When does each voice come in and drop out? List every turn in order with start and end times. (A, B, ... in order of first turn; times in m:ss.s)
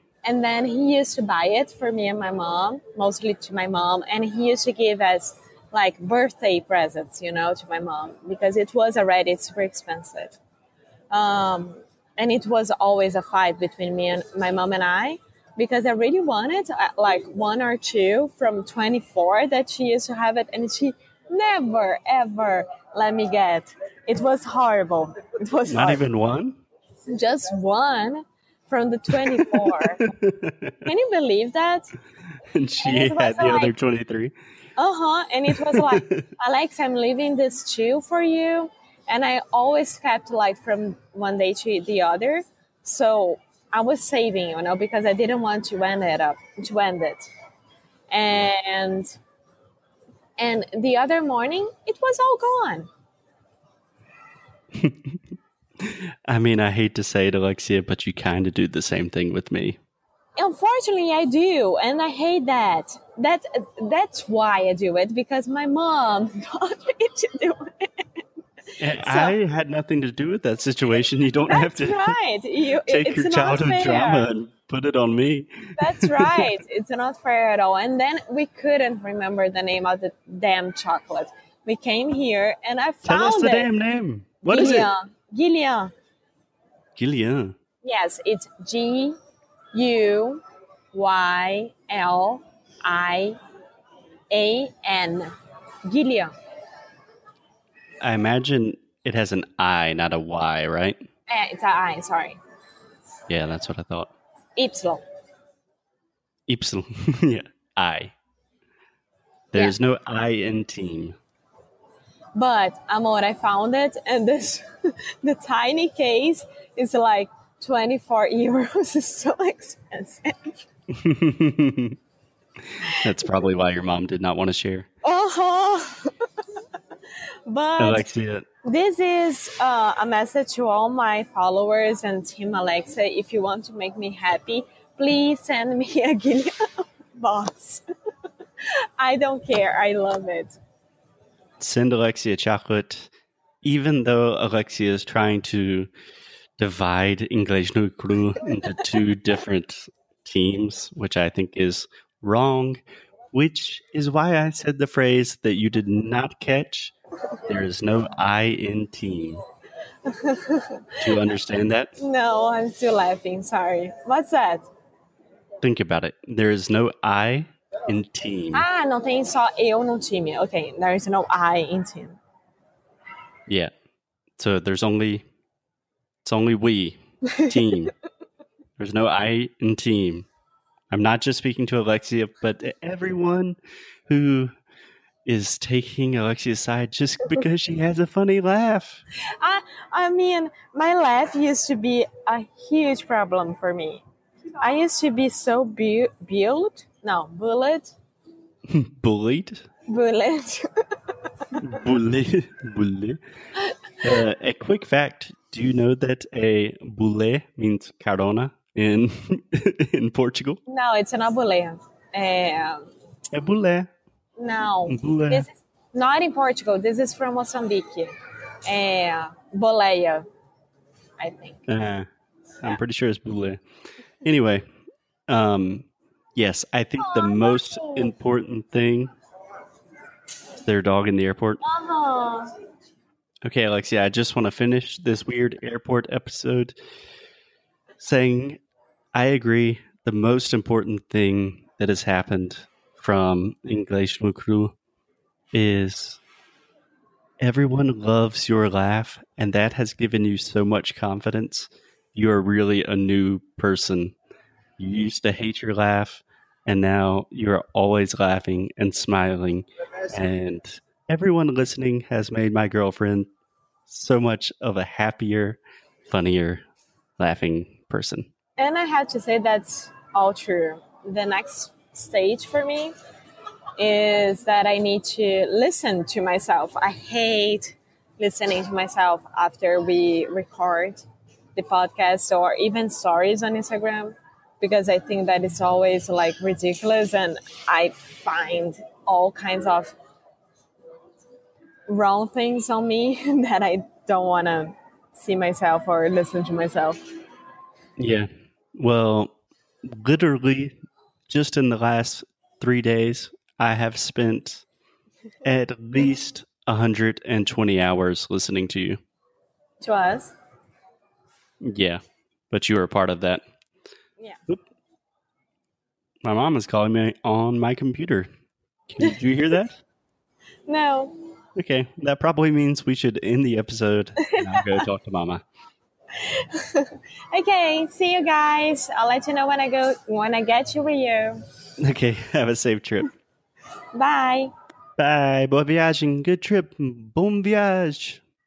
0:00.2-0:10.4 A
0:11.1-0:26.0 A
0:25.7-0:26.6 B
0:27.1-0:30.0 A
0:29.4-0:30.8 B
0:30.8-0:31.9 A
0:32.5-0:34.3 B
0:32.8-0:33.7 A
0:34.8-0:47.3 A
0:35.5-0:36.3 B
0:48.1-0:49.1 A
0:50.4-0:52.9 A
0:54.8-0:55.2 B
0:55.8-0:59.8 B
1:00.4-1:08.2 A
1:08.8-1:12.2 B
1:09.0-1:09.4 A
1:11.5-1:14.3 A
1:12.8-1:16.5 B
1:15.8-1:23.7 A
1:23.0-1:24.9 B
1:24.5-1:25.9 A
1:27.0-1:27.5 B
1:27.8-1:29.2 A
1:29.7-1:33.4 A
1:34.3-1:35.3 A
1:35.9-1:36.3 A
1:38.0-1:41.0 B
1:41.3-1:42.4 A
1:43.3-1:44.1 B
1:44.6-1:45.0 A
1:46.5-1:48.1 B
1:49.5-1:51.2 B
1:52.4-1:54.6 A
1:55.2-2:00.6 A
2:00.9-2:02.0 B
2:02.7-2:04.9 B
2:05.0-2:06.7 A
2:07.5-2:08.1 A
2:07.8-2:08.4 B
2:08.6-2:17.8 A
2:19.0-2:20.6 A
2:21.6-2:23.1 B
2:23.6-2:25.9 B
2:26.6-2:32.8 B
2:33.3-2:36.9 B
2:37.4-2:39.4 B
2:40.0-2:41.0 A
2:41.0-2:41.9 B
2:42.0-2:44.7 A
2:45.6-2:48.6 B
2:48.5-2:52.2 A
2:54.4-2:55.2 B
2:56.2-2:57.9 B
2:58.8-3:00.3 B
3:00.9-3:04.5 B
3:05.2-3:09.0 B
3:09.4-3:14.0 A
3:14.6-3:17.9 A
3:18.7-3:19.6 B
3:19.9-3:21.4 A
3:21.5-3:23.2 B
3:24.0-3:30.6 B
3:30.7-3:32.9 A
3:33.3-3:33.9 B
3:34.4-3:38.1 A
3:34.9-3:35.4 B
3:38.6-3:40.2 A
3:41.2-3:41.6 A
3:41.7-3:42.1 B
3:42.6-3:43.6 B
3:44.2-3:44.6 B
3:45.3-3:49.1 B
3:47.0-3:48.1 A
3:50.6-3:51.6 B
3:51.6-3:52.5 A
3:53.4-3:56.8 B
3:58.0-3:58.6 B
3:59.1-4:04.7 B
4:05.5-4:06.2 B
4:07.4-4:14.1 B
4:14.8-4:23.3 B
4:23.9-4:26.6 B
4:27.2-4:28.3 B
4:28.6-4:32.9 A
4:33.8-4:41.0 A
4:41.6-4:49.9 A
4:51.9-4:57.0 A
4:58.0-4:59.3 B
4:59.8-5:00.7 B
5:01.3-5:04.6 B
5:05.4-5:09.0 B
5:09.8-5:10.3 A
5:11.6-5:13.4 B
5:16.2-5:18.3 B
5:18.9-5:19.8 B
5:20.7-5:21.1 A
5:21.6-5:25.4 B
5:24.2-5:24.8 A
5:26.2-5:31.4 A
5:31.8-5:33.1 B
5:33.9-5:34.5 A
5:35.0-5:38.2 B